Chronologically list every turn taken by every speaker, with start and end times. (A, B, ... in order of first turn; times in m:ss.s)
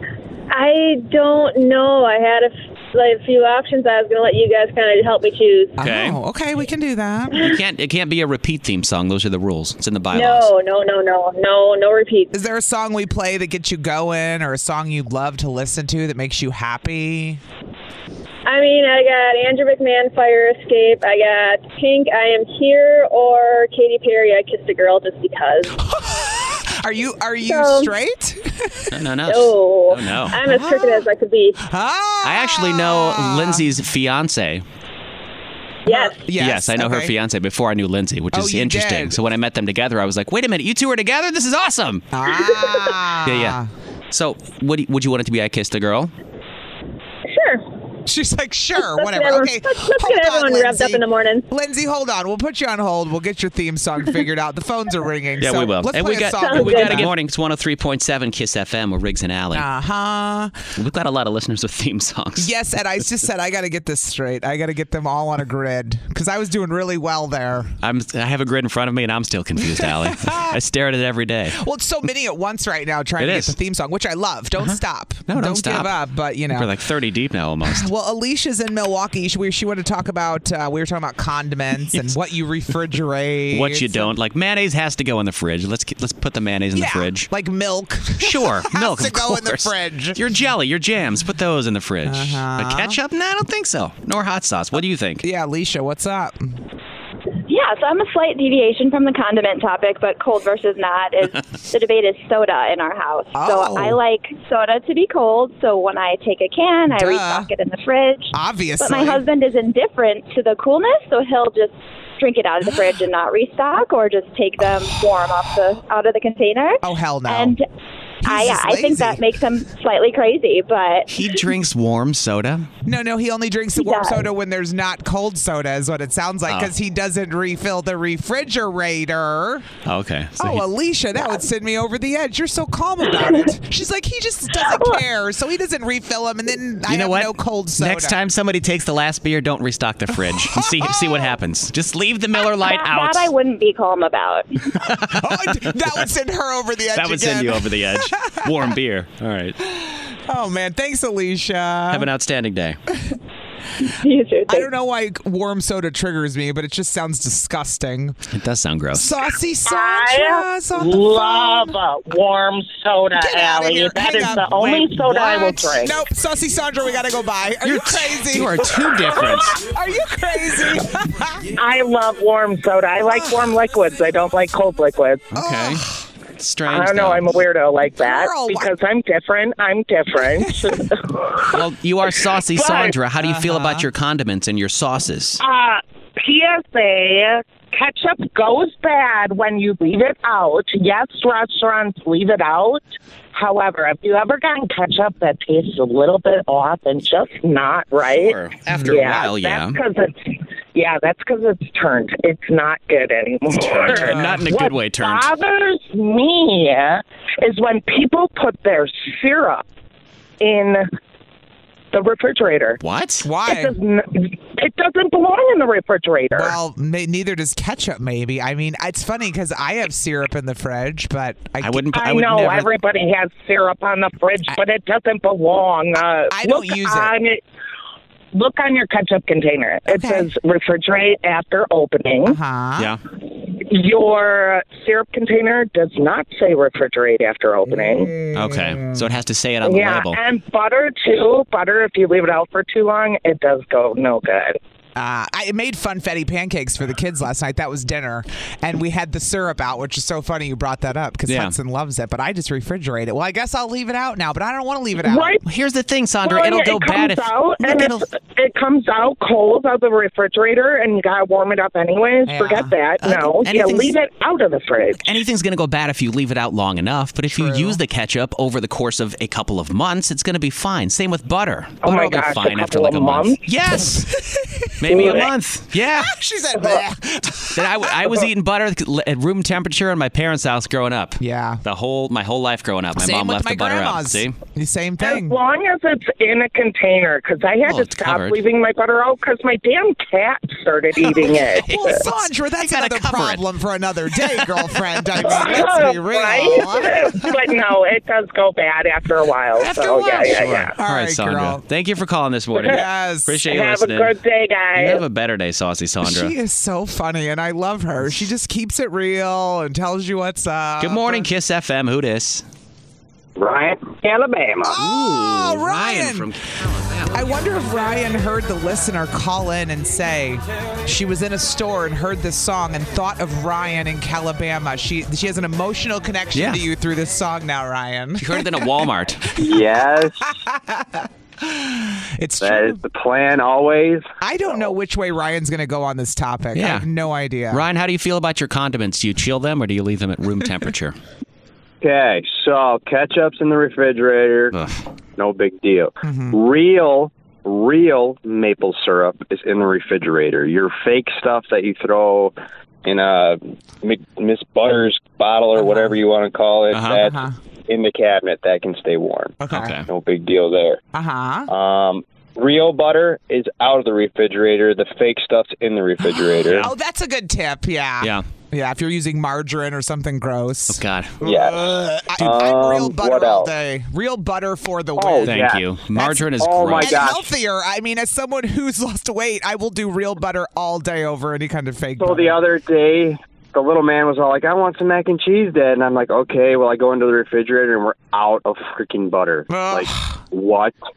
0:00.5-0:05.8 A
0:05.8-0:07.5 B
0:05.8-0:06.2 C
0:07.3-0:10.5 C
0:10.1-0:12.3 A
0:12.3-0:17.4 B
0:18.5-0:25.8 A
0:25.8-0:28.9 B
0:27.4-0:27.9 A
0:28.9-0:30.4 C
0:29.3-0:31.6 A
0:30.4-0:31.1 B
0:31.6-0:33.7 B
0:32.2-0:34.6 C
0:35.9-0:36.2 A
0:35.9-0:37.1 B
0:36.4-0:42.1 C
0:38.3-0:39.2 B
0:42.1-0:43.7 B
0:43.2-0:43.6 C
0:44.1-0:46.1 C
0:47.3-0:47.6 A
0:48.1-0:57.1 B
0:48.8-0:51.5 A
0:55.4-0:59.6 C
0:56.4-0:57.1 A
0:59.5-1:00.6 B
1:00.8-1:02.5 C
1:02.4-1:07.8 B
1:07.8-1:11.6 C
1:09.6-1:10.6 B
1:11.6-1:16.7 B
1:13.2-1:13.6 C
1:15.3-1:15.9 C
1:16.5-1:17.9 C
1:17.6-1:24.1 B
1:23.5-1:27.3 C
1:26.7-1:30.2 B
1:28.2-1:35.2 C
1:32.1-1:33.0 B
1:35.2-1:36.6 B
1:37.5-1:57.6 D
1:43.4-1:44.0 B
1:46.9-1:47.5 B
1:48.3-1:49.2 B
1:56.8-1:57.6 B
1:58.2-1:59.2 B
1:58.2-2:01.1 D
2:01.1-2:02.7 C
2:02.9-2:09.7 B
2:09.8-2:10.6 C
2:10.4-2:18.2 B
2:16.9-2:23.3 C
2:20.5-2:21.3 B
2:22.5-2:24.7 D
2:24.7-2:26.0 C
2:25.2-2:28.5 B
2:26.9-2:29.6 C
2:29.6-2:32.1 B
2:31.9-2:32.8 C
2:34.0-2:34.6 A
2:34.5-2:38.2 B
2:38.3-2:39.1 C
2:38.9-2:41.8 B
2:39.7-2:46.0 E
2:43.2-2:51.5 B
2:44.6-2:45.5 C
2:47.6-2:49.6 C
2:51.6-2:55.3 E
2:55.3-2:57.3 C
2:55.4-2:56.0 B
2:56.7-3:01.6 E
2:58.0-2:58.7 B
3:01.5-3:05.4 C
3:02.5-3:02.9 E
3:03.2-3:03.9 B
3:05.4-3:29.6 E
3:18.1-3:19.8 C
3:23.5-3:25.3 C
3:23.9-3:24.4 B
3:30.4-3:30.8 E
3:31.9-3:32.8 E
3:32.8-3:33.3 C
3:33.2-3:33.8 B
3:33.4-3:36.6 E
3:36.3-3:42.0 B
3:41.6-3:42.7 C
3:41.9-3:47.4 E
3:46.3-3:47.1 B
3:48.3-3:52.4 E
3:49.9-3:50.3 B
3:52.2-3:52.9 B
3:53.4-3:58.1 E
3:57.7-3:59.0 B
3:58.3-4:00.2 C
3:59.6-4:04.6 E
4:05.0-4:15.4 B
4:11.3-4:11.6 C
4:15.0-4:15.4 E
4:15.4-4:18.0 C
4:16.2-4:25.0 E
4:22.3-4:22.7 B
4:23.0-4:23.9 C
4:25.0-4:34.1 C
4:27.3-4:27.8 B
4:31.8-4:33.4 E
4:33.8-4:35.3 B
4:34.8-4:36.1 C
4:34.9-4:35.3 E
4:35.8-4:38.2 B
4:36.6-4:36.8 E
4:37.5-4:44.4 C
4:41.2-4:41.6 B
4:43.0-4:45.4 B
4:45.0-4:52.0 E
4:47.6-4:48.4 C
4:51.0-4:57.3 B
4:51.7-4:53.4 C
4:55.2-5:00.7 E
4:59.6-5:04.1 C
5:00.8-5:01.6 B
5:02.6-5:03.4 B
5:03.5-5:05.0 E
5:04.7-5:06.3 C
5:06.0-5:11.3 B
5:10.8-5:12.4 C
5:13.4-5:14.7 E
5:14.7-5:16.3 B
5:14.8-5:17.3 C
5:17.1-5:29.6 B
5:26.3-5:26.6 C
5:28.2-5:29.3 C
5:29.4-5:30.3 F
5:30.2-5:32.8 B
5:32.4-5:34.1 F
5:34.2-5:37.6 B
5:36.6-5:36.9 C
5:37.5-5:41.0 C
5:41.8-5:44.6 F
5:44.5-5:44.8 C
5:45.2-6:00.8 F
5:46.0-5:46.4 B
5:56.7-5:57.0 C
5:56.9-5:57.4 B
5:59.4-5:59.8 B
5:59.5-5:59.9 C
6:00.9-6:01.5 B
6:01.5-6:06.7 F
6:06.1-6:22.4 B
6:06.4-6:06.7 C
6:10.7-6:11.2 C
6:11.2-6:13.5 F
6:15.0-6:15.6 F
6:15.2-6:17.1 C
6:16.4-6:17.3 F
6:22.0-6:30.8 F
6:29.5-6:30.2 B